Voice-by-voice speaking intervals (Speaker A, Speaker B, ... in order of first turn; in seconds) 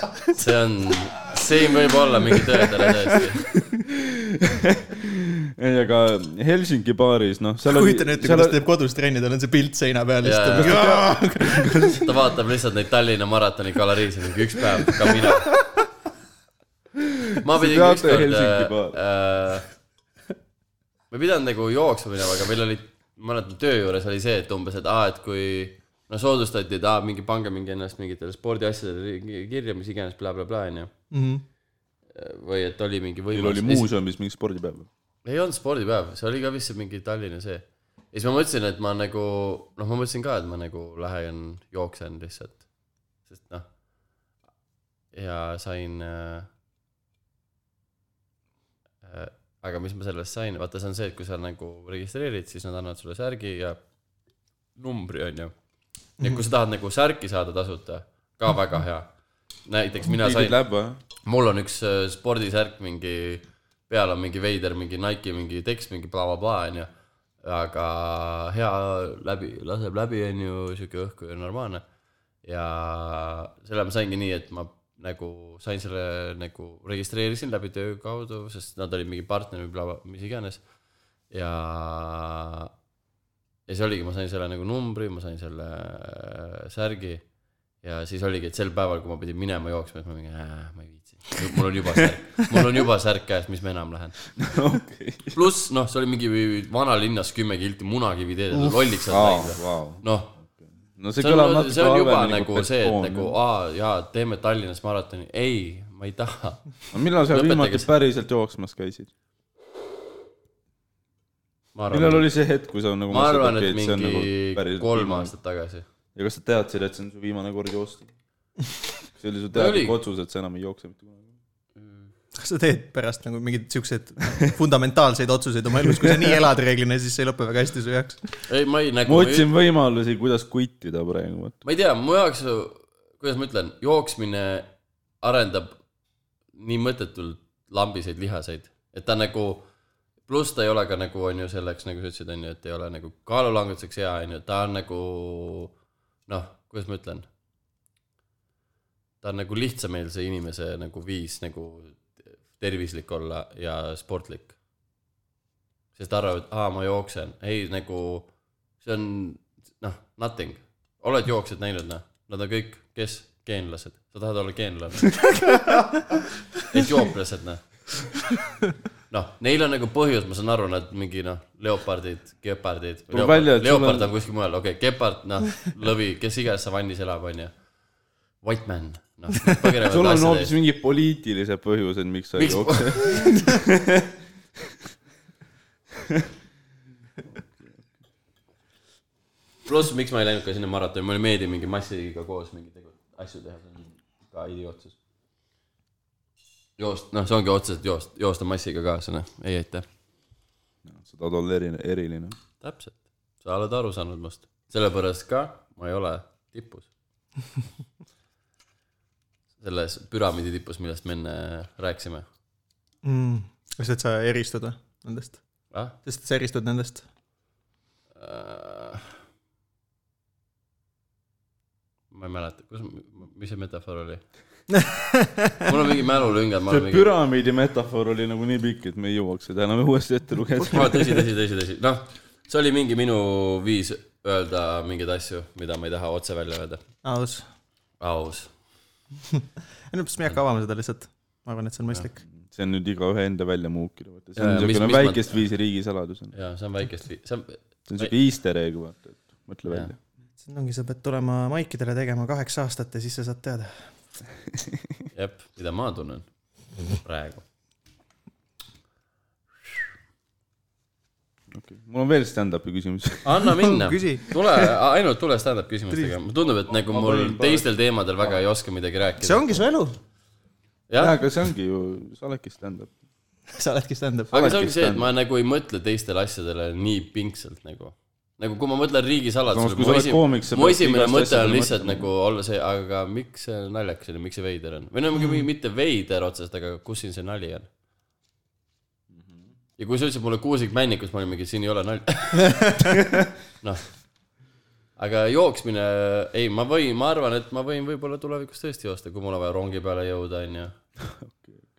Speaker A: 0.3-3.5, 10.2-11.0, 11.9-15.5, 17.4-19.7, 21.1-30.9, 32.1-33.9, 35.2-42.6, 43.3-43.6, 45.1-46.5, 49.0-53.8, 54.8-55.5, 56.2-59.1, 59.6-60.5, 61.2-66.9, 67.4-71.8, 72.4-80.6, 81.3-82.7, 83.7-87.2, 87.8-94.2, 95.3-100.4, 101.2-106.7, 107.3-107.9, 111.7-112.3, 113.1-115.8, 119.5-120.0, 121.8-122.1, 128.5-129.5, 131.6-135.8, 136.5-139.7, 140.3-145.7, 146.3-147.2, 149.2-154.5, 155.9-158.3, 158.8-165.4, 166.6-167.6, 169.1-177.5, 178.4-180.5, 182.4-183.4, 189.7-194.9, 196.8-199.8, 202.6-206.9, 209.6-212.2, 215.7-215.9, 218.2-219.1, 222.1-224.2, 225.6-227.1, 230.7-236.8, 238.0-238.5, 244.4-245.4, 246.3-248.1, 255.1-256.2, 256.9-257.4, 263.2-269.6, 270.9-271.2, 274.3-287.7, 289.8-292.9, 293.6-293.9, 295.0-300.7
Speaker B: 3.8-8.6, 10.5-12.0, 17.0-19.0, 33.3-34.9, 60.0-61.0, 94.4-95.4, 99.1-103.3, 106.9-109.1, 111.9-115.3, 116.1-118.1, 119.2-121.3, 125.9-126.3, 129.1-131.6, 173.1-174.1, 179.8-184.1, 187.3-187.8, 200.8-202.4, 226.7-231.2, 242.3-246.3, 247.9-250.0, 261.5-263.4, 266.6-267.7, 271.0-272.9, 274.3-275.1, 279.5-282.1, 289.1-289.5, 301.0-301.6
Speaker C: 7.7-12.1, 14.9-15.5, 31.1-31.4, 122.4-128.4, 165.5-165.8, 213.0-215.4, 216.0-217.0, 224.7-225.7, 237.0-237.4, 239.3-242.2, 250.4-253.9, 263.4-264.4, 269.2-269.9, 273.5-274.3, 285.1-285.4